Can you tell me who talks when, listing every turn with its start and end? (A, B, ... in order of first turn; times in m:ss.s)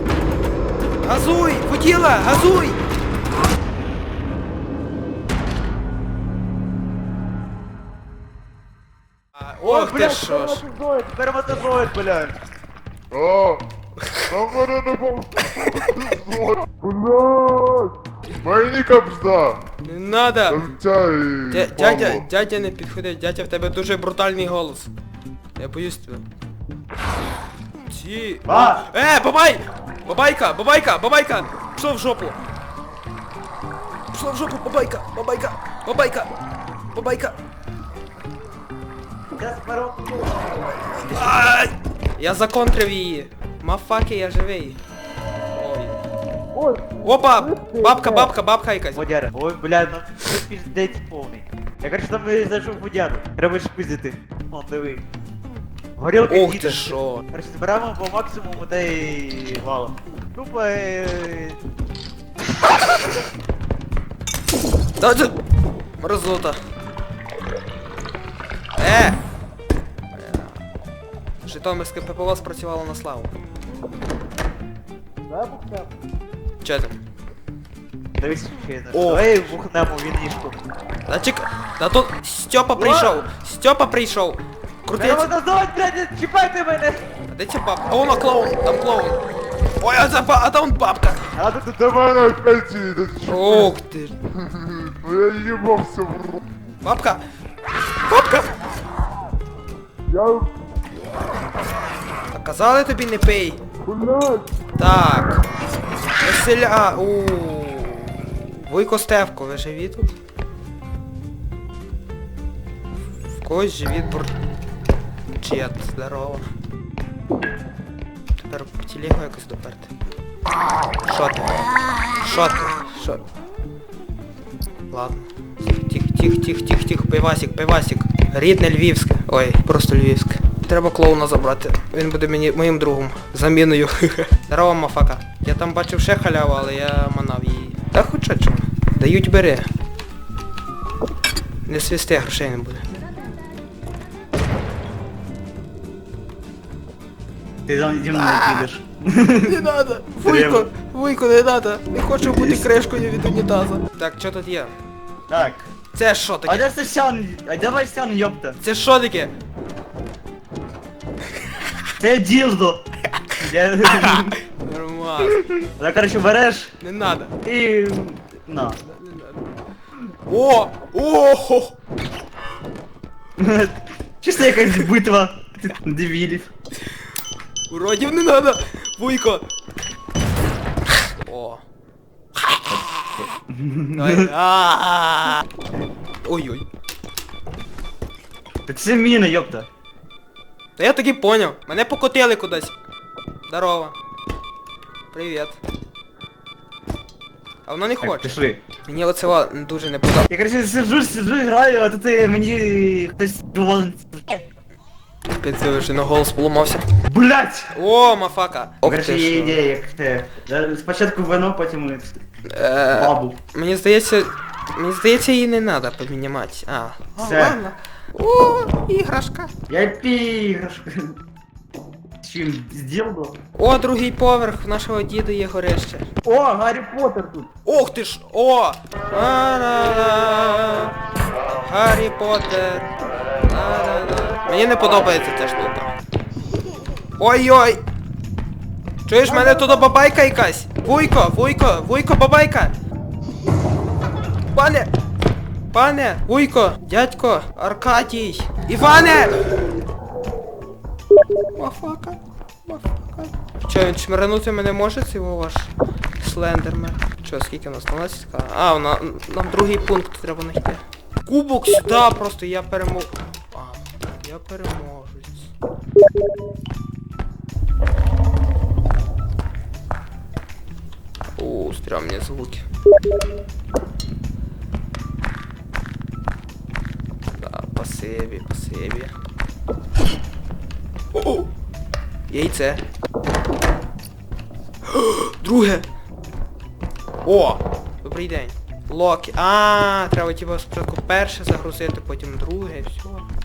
0:01.0-0:02.8 A
0:09.4-0:10.7 A
0:09.6-0:12.4 B
0:13.1-0:13.6 C
0:14.0-0:14.4 A
0:14.3-0:19.6 C
0:15.4-0:16.0 A
0:19.8-0:20.8 A
0:20.6-0:22.2 C
0:21.5-0:24.9 A
0:25.6-0:26.2 A
0:27.9-0:32.4 A
0:28.4-0:28.8 B
0:34.1-0:36.3 A
0:36.9-0:37.3 A
0:39.4-0:41.4 B
0:41.0-0:44.8 A
0:45.6-0:46.0 A
0:46.6-0:48.3 B
0:47.0-0:49.0 A
0:49.0-0:55.0 B
0:56.0-1:01.6 B
0:56.3-0:57.3 A
1:02.6-1:03.0 B
1:05.0-1:05.4 A
1:06.0-1:06.6 A
1:08.8-1:09.2 A
1:10.1-1:10.6 A
1:11.4-1:13.3 A
1:15.3-1:15.9 B
1:16.6-1:17.0 A
1:18.2-1:20.6 B
1:18.9-1:19.6 A
1:21.1-1:25.3 A
1:22.8-1:23.2 B
1:24.9-1:27.0 B
1:27.3-1:29.2 A
1:29.8-1:31.3 A
1:31.3-1:32.3 B
1:32.1-1:33.4 C
1:33.2-1:34.2 A
1:34.5-1:36.4 C
1:36.8-1:37.2 A
1:38.0-1:38.6 A
1:40.1-1:40.5 C
1:42.3-1:43.6 A
1:43.9-1:44.5 C
1:44.8-1:45.4 A
1:46.2-1:50.1 A
1:53.4-1:54.3 A
1:55.4-1:56.5 A
1:58.4-1:59.9 A
2:01.0-2:03.2 A
2:04.9-2:19.7 A
2:21.7-2:22.8 A
2:27.7-2:29.7 B
2:28.1-2:28.7 A
2:29.4-2:34.7 A
2:30.2-2:30.7 B
2:32.2-2:32.7 B
2:35.3-2:35.7 B
2:35.9-2:36.7 A
2:36.5-2:38.6 B
2:38.6-2:39.3 A
2:42.0-2:42.8 B
2:43.4-2:44.4 B
2:43.8-2:45.4 A
2:45.2-2:46.7 B
2:46.8-2:47.4 A
2:47.4-2:48.8 B
2:48.8-2:49.5 A
2:50.3-2:51.8 A
2:53.4-2:56.5 B
2:57.7-2:59.5 A
3:01.0-3:01.6 A
3:02.4-3:03.2 A
3:02.7-3:04.3 B
3:03.9-3:05.4 A
3:06.2-3:06.7 A
3:08.7-3:09.7 B
3:10.8-3:12.8 A
3:13.5-3:14.0 A
3:15.1-3:15.6 A
3:17.7-3:20.3 A
3:18.0-3:18.6 B
3:20.3-3:24.4 B
3:25.4-3:26.8 A
3:27.0-3:27.7 B
3:27.7-3:29.6 A
3:28.8-3:32.2 B
3:32.5-3:39.5 A
3:32.9-3:33.4 B
3:37.2-3:37.6 B
3:39.7-3:41.2 B
3:42.2-3:43.4 B
3:43.6-3:46.1 A
3:46.2-3:47.5 B
3:47.6-3:51.0 A
3:51.5-3:55.9 A
3:57.2-3:57.8 A
3:59.1-4:02.7 A
3:59.3-3:59.9 B
4:04.5-4:04.9 A
4:05.7-4:09.5 A
4:11.6-4:25.5 A
4:31.4-4:32.7 A
4:37.4-4:39.1 A
4:41.1-4:41.5 A
4:42.3-4:42.8 A
4:44.9-4:45.9 A
4:47.2-4:53.2 A